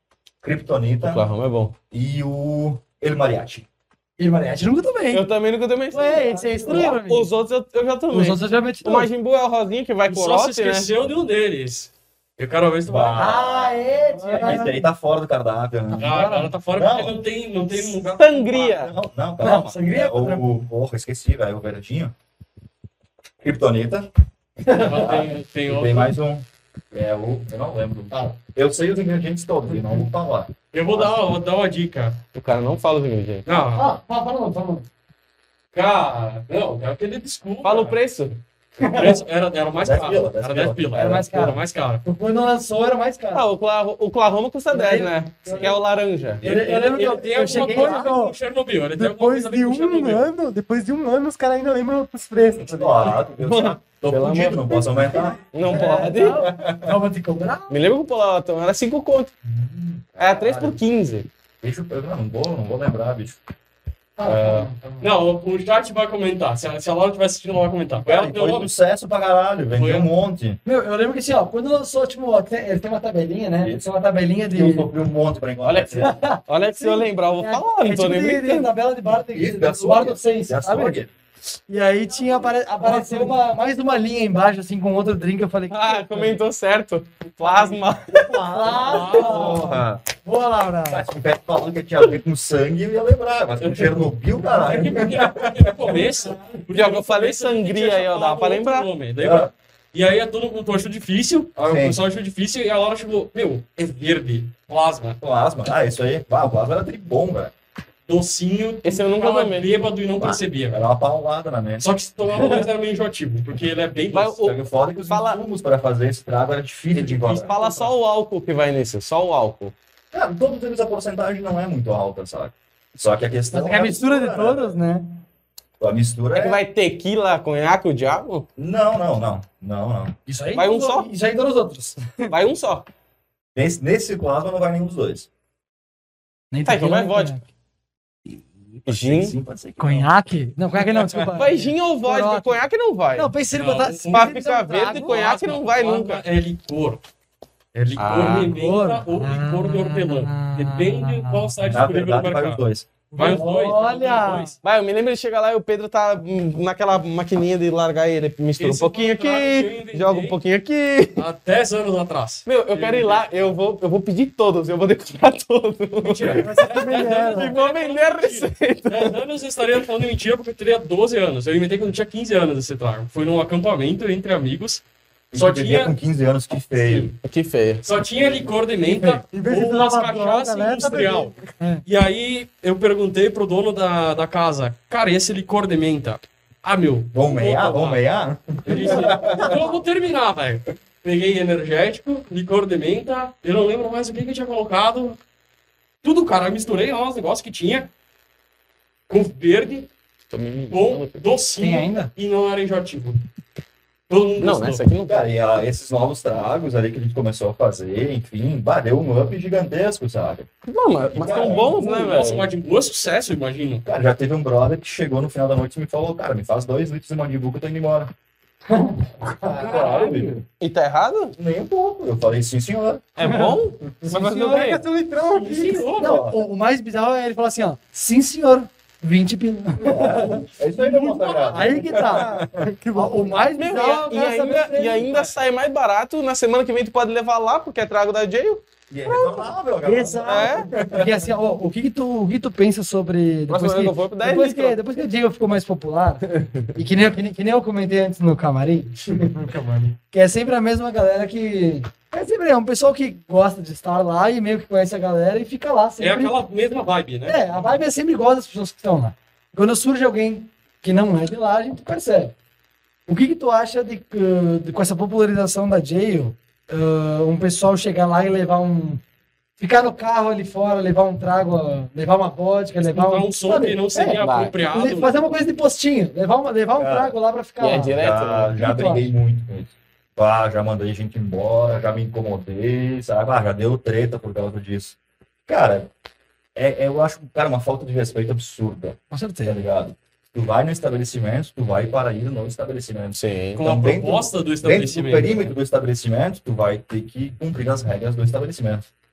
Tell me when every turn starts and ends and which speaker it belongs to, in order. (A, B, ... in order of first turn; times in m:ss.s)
0:00.4-0:01.3 A
0:01.0-0:01.8 B
0:01.9-0:03.7 A
0:04.2-0:05.3 C
0:05.1-0:10.9 B
0:05.9-0:07.3 C
0:08.1-0:09.1 C
0:10.1-0:13.4 D
0:12.9-0:17.2 A
0:13.2-0:14.8 C
0:14.2-0:14.7 E
0:15.9-0:16.5 C
0:16.0-0:18.8 D
0:18.2-0:18.9 B
0:18.6-0:22.2 A
0:19.4-0:20.4 C
0:23.4-0:24.1 A
0:24.7-0:25.0 C
0:24.8-0:26.2 D
0:24.8-0:31.2 A
0:30.7-0:32.2 D
0:32.4-0:33.5 B
0:33.5-0:33.9 D
0:33.8-0:34.9 C
0:35.7-0:38.0 D
0:37.6-0:38.4 B
0:38.8-0:39.2 C
0:38.8-0:42.0 D
0:39.8-0:41.3 A
0:41.0-0:43.5 C
0:43.3-0:46.4 B
0:44.7-0:45.8 C
0:46.4-0:46.8 A
0:46.4-0:48.2 C
0:46.4-0:50.3 D
0:47.5-0:48.3 E
0:49.0-0:53.3 E
0:52.6-0:57.0 A
0:53.4-0:54.7 B
0:55.5-0:56.5 B
0:55.6-0:57.8 C
0:57.7-0:59.3 B
0:59.4-1:00.8 A
1:00.2-1:01.3 B
1:01.6-1:03.4 A
1:04.2-1:05.1 C
1:04.2-1:04.7 A
1:05.0-1:08.7 D
1:08.0-1:10.6 A
1:09.8-1:10.1 D
1:10.6-1:14.9 C
1:13.6-1:13.9 A
1:14.5-1:16.1 A
1:15.6-1:18.7 B
1:16.0-1:21.0 C
1:19.2-1:21.1 A
1:21.7-1:26.4 C
1:22.9-1:23.2 E
1:25.7-1:28.3 B
1:28.1-1:30.0 A
1:28.4-1:31.0 C
1:28.8-1:29.8 D
1:30.9-1:36.0 A
1:33.6-1:45.2 D
1:36.7-1:39.1 B
1:39.2-1:39.5 A
1:41.6-1:42.0 A
1:45.2-1:47.5 A
1:48.1-1:50.9 D
1:48.8-1:49.7 B
1:50.2-1:52.6 A
1:51.8-1:54.4 D
1:54.1-1:55.4 B
1:54.4-1:57.6 A
1:56.9-1:57.9 D
1:57.2-1:59.7 B
2:00.1-2:04.8 A
2:03.5-2:05.2 C
2:05.8-2:06.6 A
2:06.3-2:08.5 B
2:08.6-2:10.2 A
2:10.3-2:12.3 C
2:10.5-2:11.1 B
2:12.3-2:12.9 B
2:13.6-2:15.3 A
2:16.5-2:17.4 C
2:16.6-2:17.4 B
2:18.9-2:19.4 B
2:18.9-2:20.1 A
2:19.8-2:22.6 C
2:20.9-2:21.3 A
2:21.3-2:23.3 B
2:23.2-2:25.6 C
2:23.5-2:24.4 D
2:24.1-2:26.2 B
2:25.1-2:27.0 D
2:27.7-2:32.6 D
2:28.0-2:28.5 B
2:28.3-2:31.5 C
2:31.6-2:32.9 A
2:33.1-2:34.6 D
2:33.2-2:33.4 E
2:33.2-2:34.5 C
2:34.6-2:41.3 B
2:38.6-2:40.4 D
2:41.2-2:43.3 D
2:42.5-2:49.2 B
2:46.0-2:56.0 D
2:46.2-2:47.6 E
2:55.3-2:57.1 A
2:57.2-2:57.9 B
2:57.8-3:01.3 D
2:59.1-3:01.4 E
3:01.9-3:08.0 D
3:07.1-3:09.7 A
3:08.7-3:15.2 D
3:16.0-3:17.9 D
3:19.1-3:19.9 D
3:20.3-3:21.2 B
3:20.7-3:23.2 D
3:21.6-3:22.1 C
3:24.1-3:24.9 D
3:24.4-3:25.2 B
3:25.1-3:30.5 A
3:30.7-3:32.5 B
3:31.1-3:31.8 A
3:31.3-3:33.8 D
3:33.8-3:38.1 A
3:38.7-3:40.3 C
3:39.5-3:40.4 A
3:39.6-3:40.3 E
3:40.6-3:41.4 B
3:41.3-3:43.4 A
3:43.2-3:44.9 B
3:43.2-3:43.5 C
3:44.1-3:45.9 E
3:44.2-3:44.7 C
3:45.3-3:46.2 D
3:46.0-3:50.4 C
3:46.0-3:46.4 A
3:49.8-3:52.7 A
3:50.8-3:53.4 E
3:51.4-3:55.3 C
3:53.6-3:58.6 B
3:58.9-4:01.3 A
3:59.8-4:09.0 C
4:00.3-4:00.7 B
4:03.5-4:04.8 B
4:09.2-4:10.0 E
4:10.1-4:16.4 C
4:16.0-4:17.4 D
4:17.3-4:22.3 C
4:23.1-4:29.0 C
4:29.6-4:38.0 C
4:32.8-4:35.2 D
4:34.2-4:34.5 B
4:36.8-4:37.2 A
4:37.6-4:38.6 B
4:38.0-4:45.9 A
4:38.6-4:39.1 C
4:46.6-4:58.9 A
4:49.1-4:49.6 C
4:53.2-4:53.6 B
4:53.6-4:55.6 D